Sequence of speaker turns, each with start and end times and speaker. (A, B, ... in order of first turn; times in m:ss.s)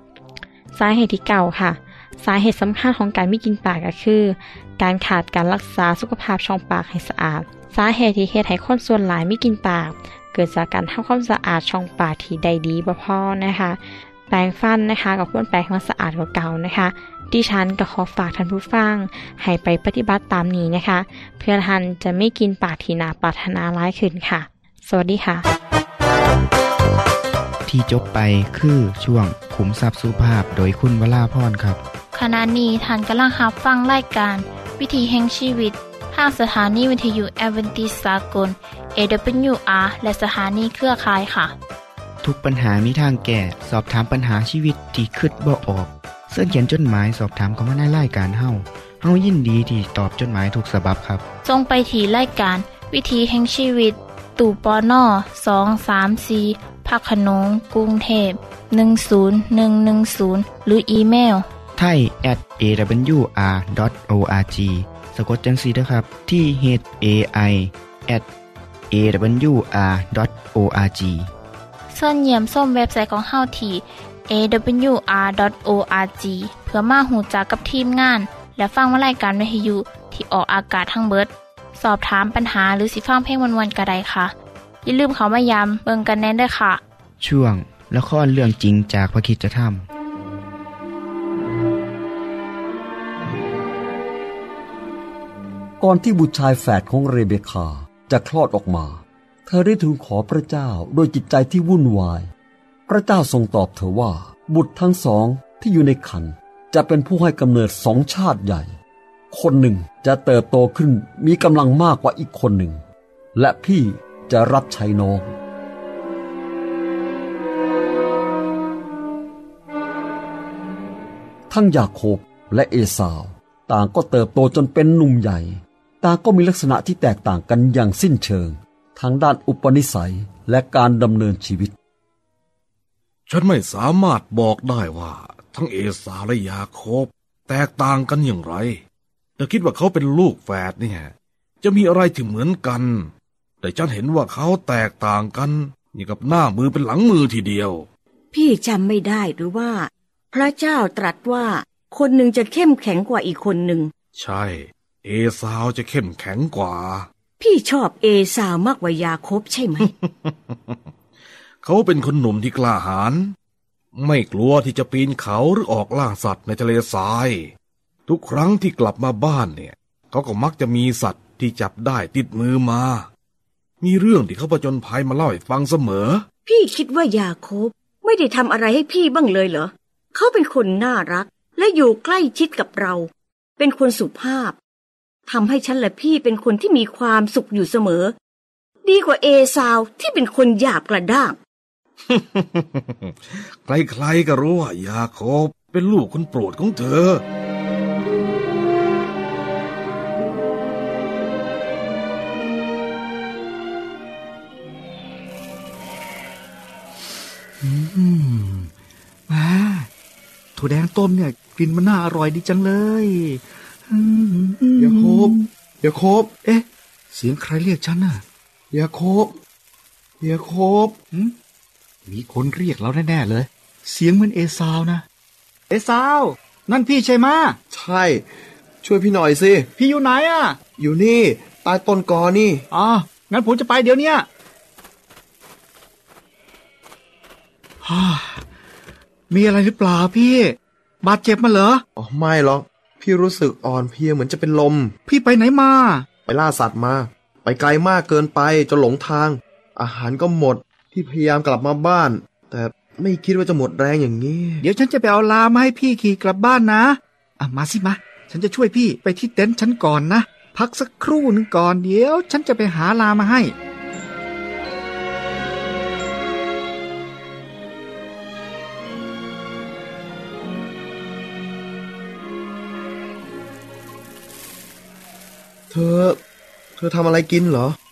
0:00.7-0:25.5 A
0:27.7-0:31.8 B
0:32.1-0:41.5 C
0:42.2-0:51.2 B
0:51.4-1:01.5 C
1:01.8-1:08.3 B
1:08.9-1:11.3 B
1:11.9-1:24.3 C
1:24.8-1:26.8 C
1:27.2-1:29.9 B
1:35.8-1:42.3 D
1:42.9-1:48.7 D
1:49.3-1:52.8 D
1:53.4-1:55.4 D
2:01.5-2:11.7 D
2:13.3-2:18.8 E
2:19.4-2:23.1 E
2:23.6-2:27.9 E
2:28.3-2:33.9 F
2:34.2-2:37.1 E
2:37.4-2:39.9 F
2:39.8-2:40.9 E
2:41.6-2:43.3 E
2:44.0-2:47.5 E
2:48.1-2:53.1 E
2:53.8-2:56.2 E
2:56.5-3:04.6 F
3:05.3-3:08.2 F
3:08.8-3:11.4 F
3:12.0-3:17.2 E
3:27.6-3:28.7 G
3:29.3-3:29.9 G
3:30.6-3:35.5 G
3:34.8-3:36.3 H
3:36.4-3:38.2 G
3:38.7-3:39.4 H
3:40.2-3:41.0 H
3:42.1-3:45.0 G
3:45.7-3:47.6 G
3:47.7-3:49.7 H
3:49.8-3:50.6 G
3:50.8-3:52.6 H
3:52.7-3:54.2 G
3:57.8-3:58.5 G
3:59.3-4:01.8 G
4:02.0-4:04.9 H
4:05.1-4:06.1 G
4:06.3-4:14.6 H
4:14.6-4:23.5 G
4:35.7-4:36.2 H
4:36.8-4:37.8 H